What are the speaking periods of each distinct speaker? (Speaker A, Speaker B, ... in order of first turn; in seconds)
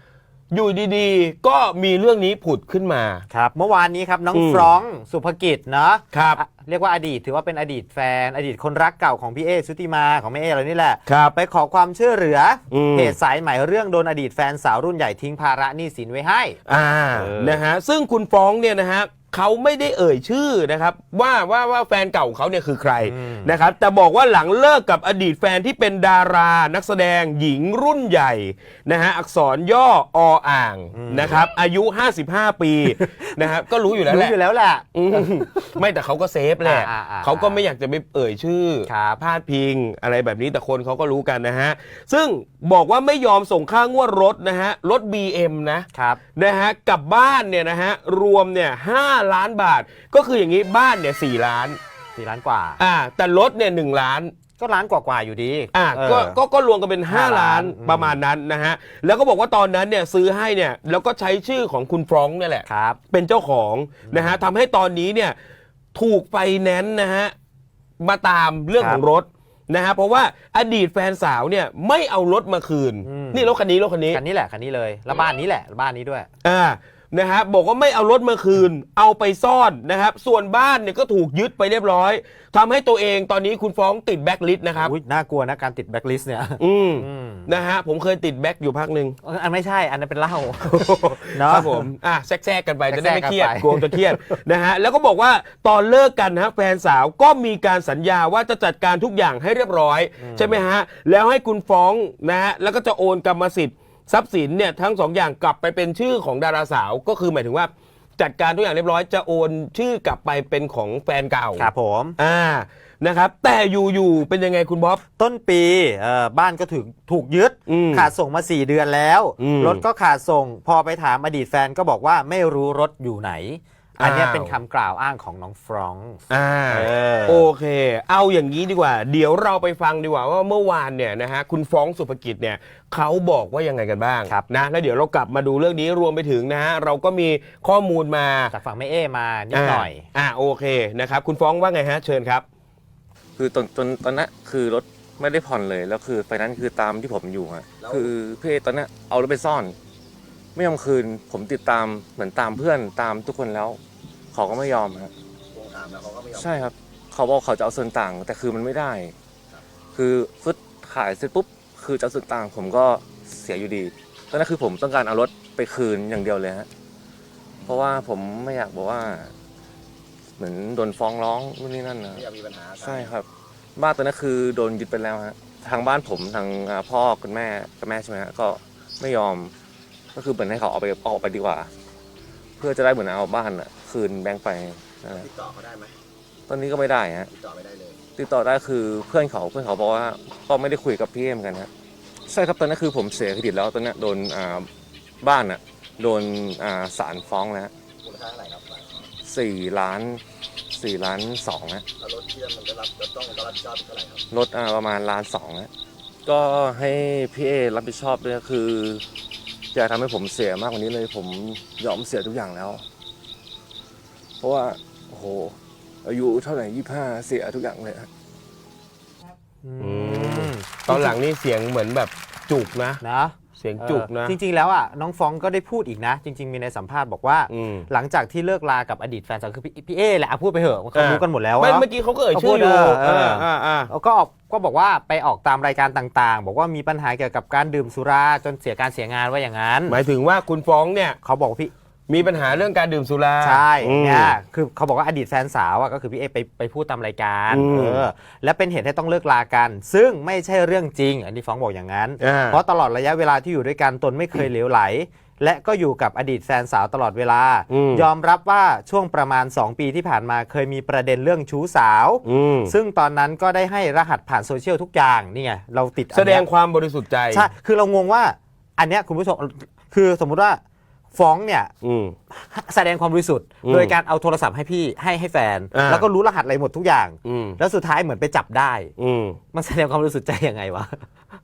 Speaker A: 0.5-3.2, 4.3-4.7, 6.1-6.4, 11.1-11.3, 12.7-13.2, 16.7-34.3, 34.9-51.8, 52.8-54.3, 55.7-65.4, 65.9-67.3, 68.0-74.2, 76.4-84.9, 86.6-89.2, 90.7-115.0, 117.7-118.1, 119.4-119.8, 124.0-124.5, 126.3-138.5, 139.5-142.4, 219.8-223.0, 223.6-224.4, 227.5-227.9, 230.9-233.9, 239.9-241.2, 242.1-244.3, 247.5-248.0, 252.2-252.6, 257.7-258.1, 262.2-262.7, 266.1-267.5, 271.8-272.1, 273.6-273.9, 275.7-276.1, 277.2-277.6, 279.0-279.4
Speaker B: 3.3-16.6, 17.1-17.6, 23.0-23.5, 30.9-31.4, 33.0-33.4, 34.1-35.8, 36.6-37.6, 38.9-39.2, 45.9-46.2, 52.2-52.8, 54.6-56.4, 57.1-58.2, 62.7-63.0, 64.1-64.3, 68.8-69.0, 73.0-73.5, 74.1-76.3, 84.8-87.5, 89.2-91.9, 92.9-94.4, 100.2-100.6, 111.6-112.2, 115.2-127.5, 138.5-140.1, 219.6-221.2, 223.0-240.0, 241.2-241.7, 243.4-266.5, 267.3-270.6, 271.1-271.7, 272.3-278.9, 279.5-281.0
Speaker C: 143.4-149.8, 150.6-153.8, 154.3-155.1, 156.3-159.1, 159.9-166.7, 167.7-169.3, 170.4-179.5, 180.2-181.7, 182.6-185.3, 186.5-187.3, 188.2-191.7, 192.3-194.7, 195.2-197.7, 199.2-201.8, 204.3-205.7, 206.2-209.0, 209.7-212.8, 214.4-218.1
Speaker D: 155.5-156.7, 172.2-173.1, 185.2-185.9, 187.3-188.0, 198.1-199.1, 202.0-204.2